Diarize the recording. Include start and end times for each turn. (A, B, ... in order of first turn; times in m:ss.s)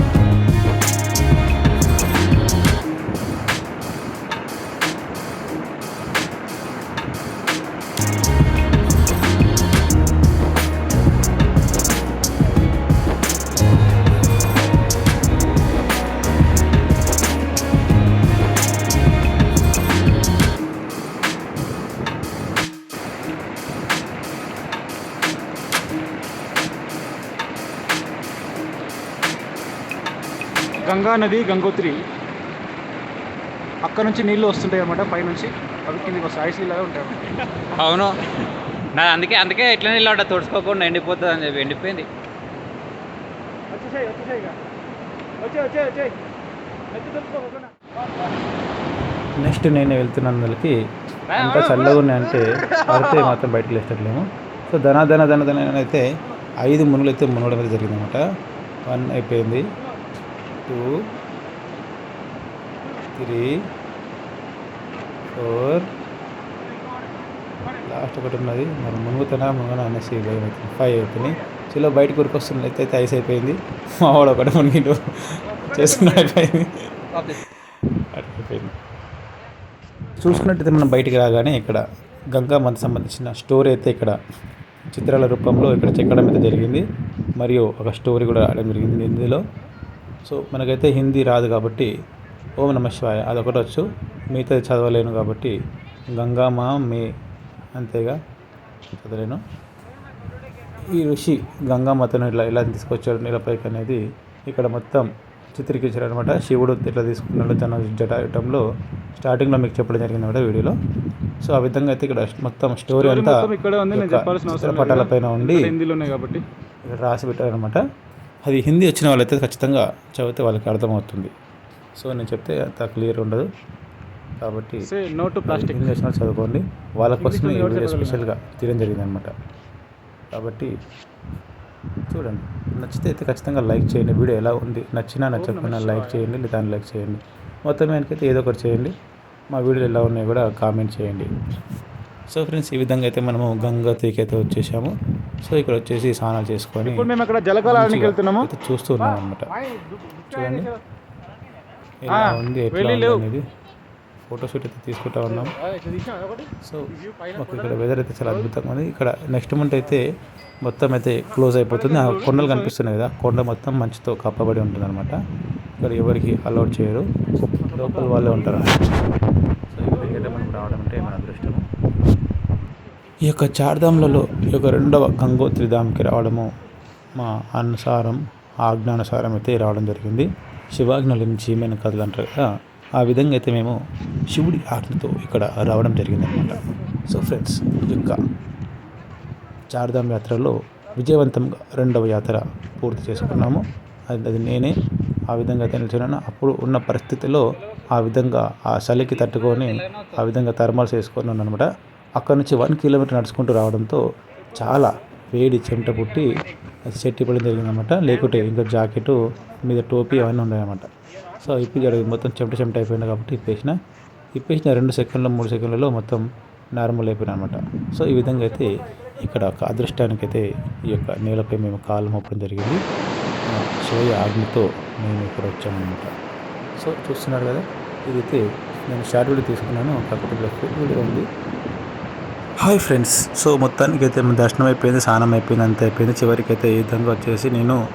0:30.8-0:32.0 A
0:33.8-0:37.3 A
0:37.7-0:38.2 B
0:38.9-0:42.1 B
0:49.4-0:50.7 C
0:51.3-0:56.0 C
0:56.6-0:58.2 C
0:58.9-0:59.6 C
1:03.2-1:03.5 C
1:05.4-1:05.9 C
1:07.8-1:17.4 C
1:18.1-1:18.8 C
1:20.2-1:24.2 C
1:24.9-1:26.8 C
1:27.4-1:29.4 C
1:30.3-1:31.9 C
1:32.6-1:35.5 C
1:36.1-1:37.1 C
1:37.8-1:38.2 C
1:38.9-1:39.4 C
1:40.9-1:48.6 C
1:49.2-1:50.8 C
1:51.4-1:55.7 C
1:53.0-1:56.4 A
1:56.9-1:57.8 C
1:58.4-2:01.3 C
2:02.0-2:03.5 C
2:04.4-2:04.8 C
2:04.8-2:05.9 A
2:05.5-2:09.3 C
2:07.2-2:08.3 A
2:10.3-2:10.7 C
2:12.1-2:18.9 C
2:15.4-2:16.2 A
2:19.5-2:21.3 C
2:22.3-2:24.9 C
2:25.4-2:27.1 C
2:26.8-2:28.5 A
2:27.6-2:29.5 C
2:30.3-2:30.7 C
2:32.0-2:33.4 C
2:32.1-2:33.2 A
2:34.3-2:35.6 C
2:36.6-2:40.0 C
2:40.6-2:45.2 C
2:45.8-2:47.0 C
2:47.7-2:48.8 C
2:49.7-2:51.6 C
2:53.2-2:56.5 C
2:57.2-3:02.4 C
3:03.0-3:03.8 C
3:04.3-3:08.2 C
3:09.7-3:14.7 C
3:15.3-3:24.0 C
3:24.5-3:26.3 C
3:26.9-3:30.9 C
3:31.4-3:33.8 C
3:34.4-3:36.2 C
3:36.8-3:42.8 C
3:43.5-3:46.1 C
3:46.8-3:51.3 C
3:52.6-3:57.8 C